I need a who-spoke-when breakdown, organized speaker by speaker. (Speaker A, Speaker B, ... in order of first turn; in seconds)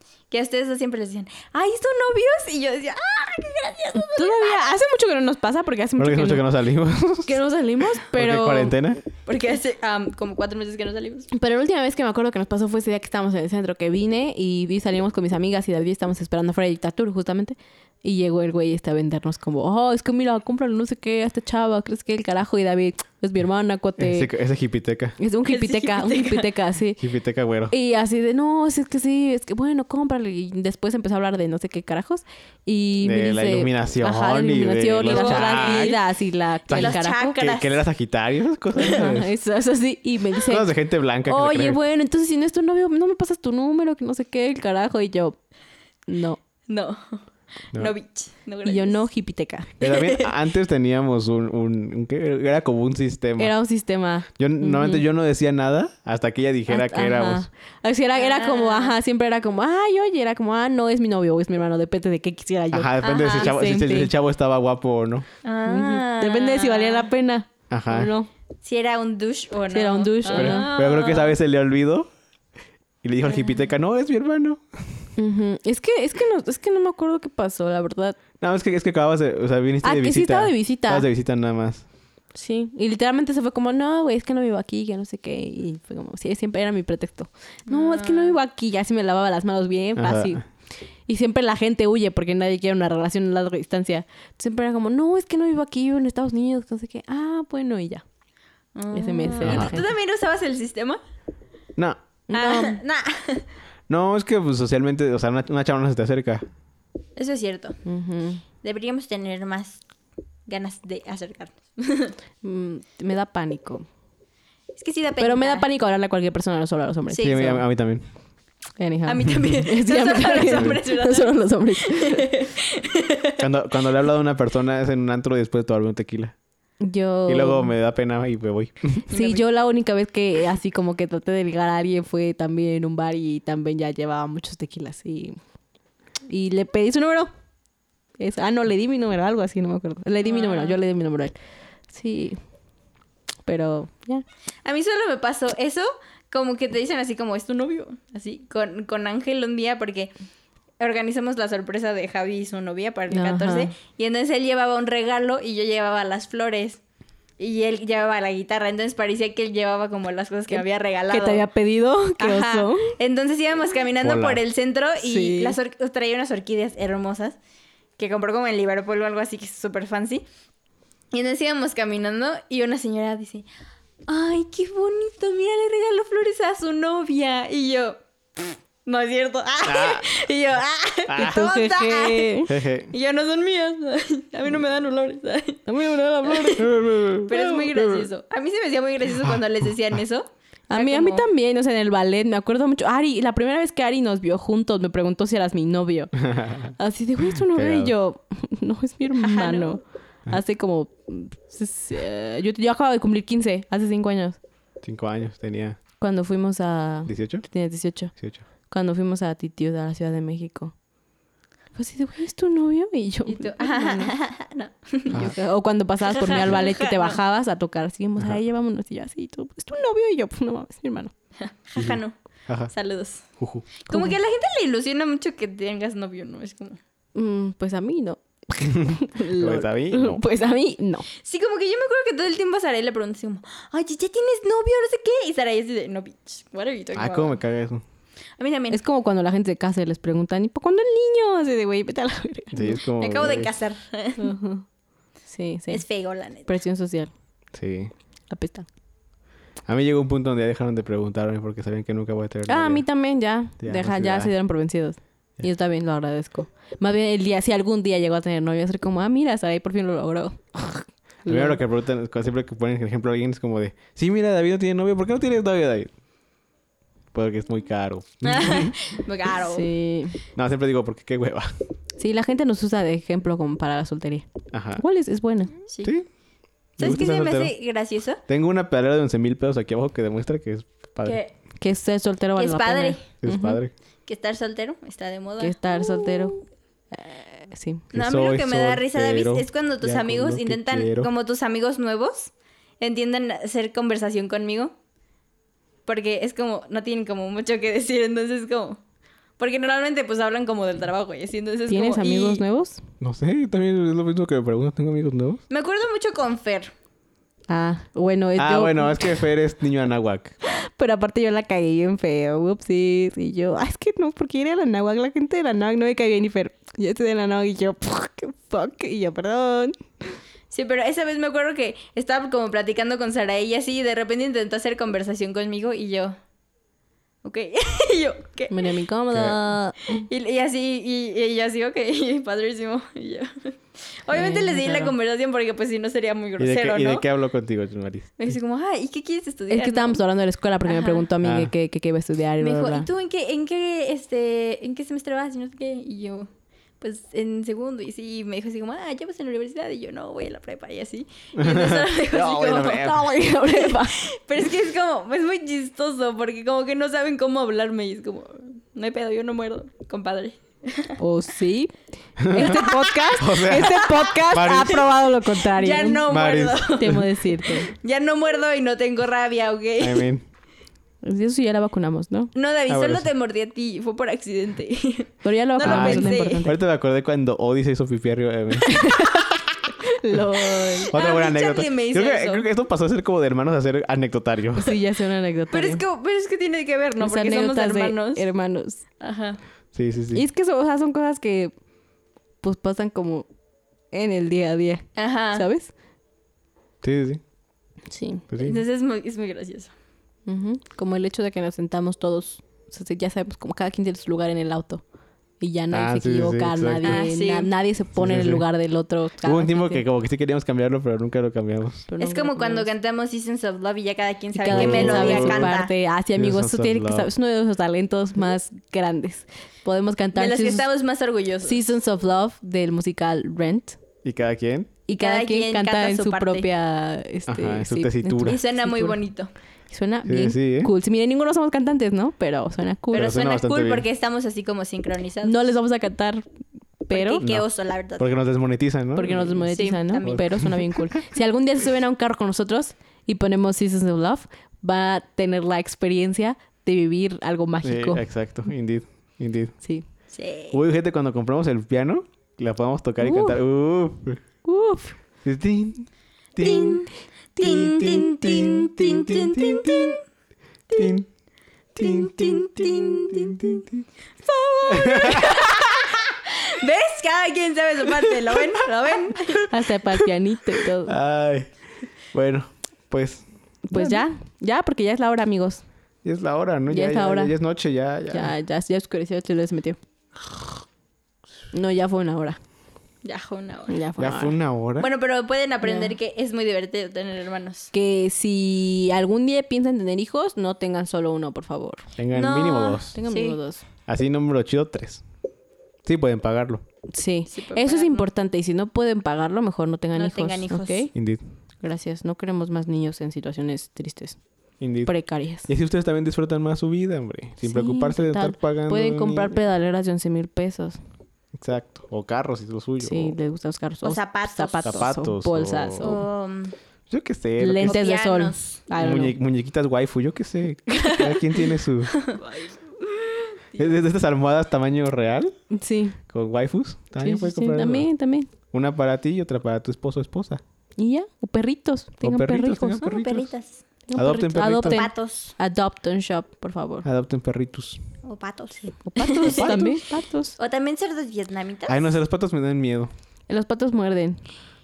Speaker A: 0.3-4.7, 9.2-11.3, 25.4-26.5, 35.0-36.0, 36.7-37.8, 46.7-49.0, 49.8-50.3, 58.1-59.0, 63.0-63.5, 65.4-67.1, 68.6-71.3, 73.3-73.5, 87.7-88.3, 98.7-101.0, 102.3-103.5, 107.2-107.8, 108.6-109.8, 110.5-112.2, 114.8-115.7, 117.1-117.5, 119.0-123.4, 129.1-129.4, 140.2-140.8, 144.6-150.1, 150.8-156.8, 157.4-161.4, 162.2-167.4, 168.0-170.2, 171.1-173.4, 174.1-182.4, 182.9-185.6, 187.3-191.3, 199.2-199.8, 213.3-215.3, 216.0-217.2, 221.4-222.1, 222.7-223.2, 223.8-226.8, 231.2-237.4, 238.4-238.8, 243.0-244.2, 245.7-246.5, 268.2-269.7, 275.7-275.9, 276.8-278.2, 281.0-281.3, 282.4-283.1, 284.1-286.4, 287.9-294.7, 295.9-298.8, 299.4-302.4, 305.5-306.7, 320.5-326.1, 327.2-328.7, 329.9-337.0, 338.2-340.0, 340.6-341.1, 342.4-346.3, 346.8-352.9, 353.5-361.0, 362.5-364.1, 365.4-370.1, 372.3-376.5, 379.1-379.4, 380.5-382.4, 385.5-388.3, 389.0-389.4, 394.9-395.4, 398.4-399.7, 406.8-407.5, 412.0-415.7, 420.1-421.6, 425.0-426.4, 428.2-429.3, 432.9-435.5, 436.9-438.1, 439.5-440.5, 450.1-450.6, 456.4-460.0, 460.7-461.0, 461.8-463.6, 464.2-469.5, 483.0-483.8, 484.8-487.7, 492.1-493.4, 497.3-498.1, 499.9-500.9, 513.8-514.9, 515.8-516.5, 517.6-518.6, 521.9-523.6, 532.8-533.6, 534.4-535.3, 538.0-539.7, 540.4-541.9
Speaker B: 3.9-6.4, 7.2-8.8, 11.3-24.3, 25.2-27.0, 27.7-37.4, 38.8-40.7, 41.3-45.4, 46.1-46.4, 48.6-49.7, 53.4-55.0, 56.7-64.1, 65.7-68.3, 69.7-70.7, 75.2-78.2, 79.8-81.0, 82.3-90.4, 91.1-98.0, 98.9-99.9, 102.3-102.8, 107.8-108.4, 112.4-113.8, 115.2-117.7, 118.8-122.5, 126.8-127.7, 129.1-135.4, 136.3-137.3, 138.2-141.3, 141.9-142.4, 143.4-144.2, 153.1-153.7, 160.5-162.9, 165.0-165.6, 181.2-182.5, 185.7-186.7, 190.7-196.1, 196.8-204.4, 206.0-208.1, 208.7-210.7, 211.7-214.1, 215.1-221.1, 223.9-224.2, 227.1-231.1, 238.7-242.8, 244.2-244.6, 245.3-245.8, 246.4-247.1, 248.3-248.7, 252.5-261.6, 269.4-270.2, 272.0-275.5, 281.6-283.6, 285.4-286.4, 286.9-287.9, 301.7-302.8, 307.5-309.2, 310.5-319.8, 328.5-330.0, 334.1-334.9, 339.5-342.9, 352.7-354.0, 361.0-361.7, 362.3-366.1, 366.8-367.7, 371.0-372.3, 375.2-376.6, 378.6-379.2, 379.8-380.9, 384.5-385.8, 387.0-388.8, 390.1-391.5, 392.4-393.3, 393.9-395.7, 397.9-398.2, 400.3-404.8, 405.4-409.8, 411.9-412.7, 414.3-420.6, 421.4-423.8, 424.9-429.0, 429.7-433.2, 435.2-436.3, 436.8-437.2, 438.9-448.0, 453.0-453.4, 454.4-455.0, 457.4-459.2, 469.5-471.0, 473.7-475.6, 476.7-477.3, 478.1-479.8, 481.5-482.4, 483.7-484.3, 485.6-485.9, 487.7-491.9, 492.9-493.6, 496.9-500.9, 501.6-504.2, 504.9-505.5, 507.4-510.8, 512.8-516.0, 517.4-519.2, 525.5-526.0, 527.0-528.3, 530.8-532.9, 533.9-536.9, 538.8-540.3, 543.3-544.2
Speaker C: 6.0-7.3, 8.0-9.0, 24.0-25.1, 27.0-27.7, 33.0-36.0, 36.7-39.3, 40.5-41.8, 49.8-53.5, 54.4-57.5, 62.7-65.2, 67.7-68.1, 70.3-72.1, 73.0-74.9, 78.4-81.8, 90.0-90.4, 99.4-99.8, 101.8-102.0, 103.9-106.5, 117.2-118.0, 123.4-126.3, 127.3-129.0, 164.0-164.4, 179.6-180.0, 181.1-181.4, 182.5-182.9, 186.6-188.1, 196.2-196.7, 197.3-197.9, 204.8-205.8, 207.1-207.4, 208.2-208.4, 221.8-222.7, 223.4-223.7, 228.7-230.2, 236.9-237.8, 242.5-243.5, 247.5-247.9, 249.7-252.8, 253.6-254.3, 261.3-265.9, 267.1-268.7, 270.3-271.5, 274.5-274.8, 276.8-277.5, 278.3-281.2, 283.2-283.7, 287.9-291.1, 303.0-305.4, 308.4-310.3, 336.4-338.2, 341.2-341.5, 351.4-353.1, 362.2-362.6, 363.1-364.9, 366.1-366.8, 369.8-370.2, 372.7-373.1, 375.6-378.7, 380.9-384.7, 389.7-390.2, 396.8-397.2, 398.3-398.6, 405.7-407.0, 407.9-408.5, 409.2-411.9, 414.5-415.6, 416.1-417.1, 424.0-424.7, 427.3-428.4, 430.1-430.7, 432.9-433.8, 438.0-439.5, 440.1-440.8, 447.6-449.5, 450.5-454.2, 455.2-456.9, 457.4-460.0, 460.8-461.1, 461.8-463.8, 464.7-465.9, 470.7-471.5, 472.1-473.2, 476.0-478.3, 484.0-484.9, 492.0-493.0, 493.9-495.0, 495.8-496.6, 500.9-501.2, 504.6-504.9, 505.4-509.4, 511.3-513.1, 514.6-516.0, 516.9-517.8, 518.8-521.9, 523.5-525.3, 526.1-527.9, 528.5-530.4, 532.0-533.3, 534.0-534.8, 536.8-537.8, 539.2-539.7, 541.7-542.9